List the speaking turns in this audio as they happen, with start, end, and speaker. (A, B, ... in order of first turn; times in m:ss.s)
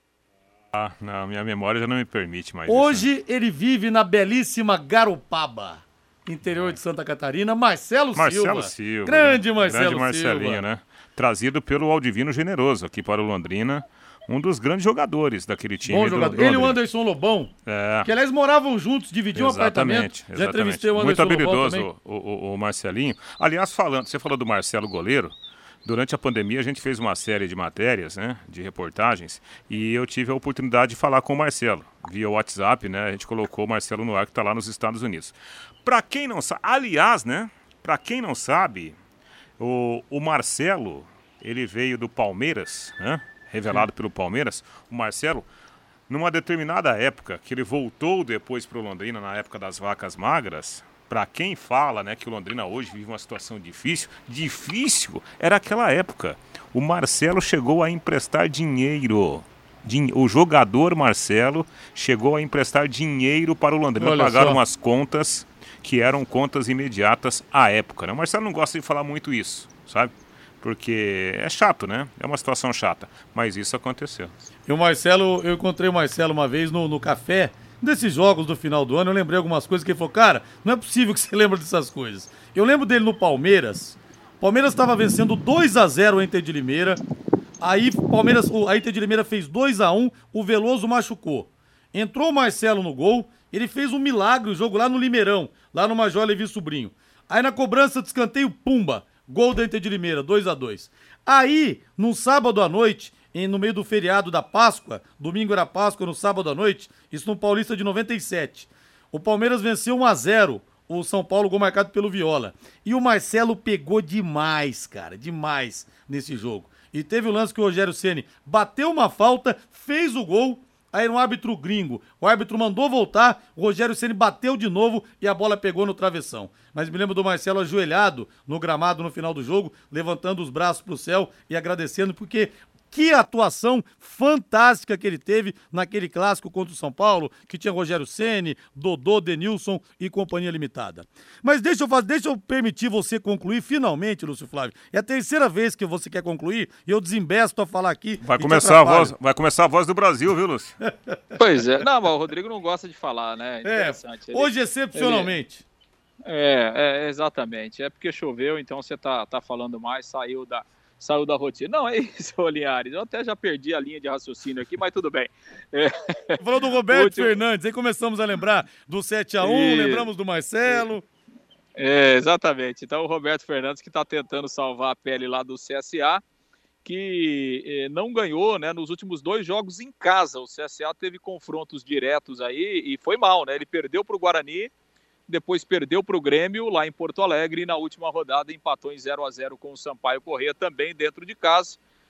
0:00.7-0:03.1 A
0:02.7-0:10.6 B
0:06.4-0:06.8 A
0:08.1-0:16.8 A
0:15.8-0:17.5 B
0:17.6-0:18.1 A
0:18.0-0:21.9 B
0:19.3-0:39.0 A
0:39.6-0:45.4 A
0:46.1-1:14.3 A
1:04.0-1:04.6 B
1:14.7-1:27.0 B
1:27.6-2:29.1 B
2:28.2-2:30.8 A
2:30.9-2:31.1 B
2:31.4-2:35.4 C
2:33.6-2:35.6 B
2:36.2-2:47.3 C
2:46.4-2:51.0 B
2:49.4-2:50.1 C
2:51.8-2:56.2 C
2:56.8-3:04.7 C
3:05.3-3:11.8 C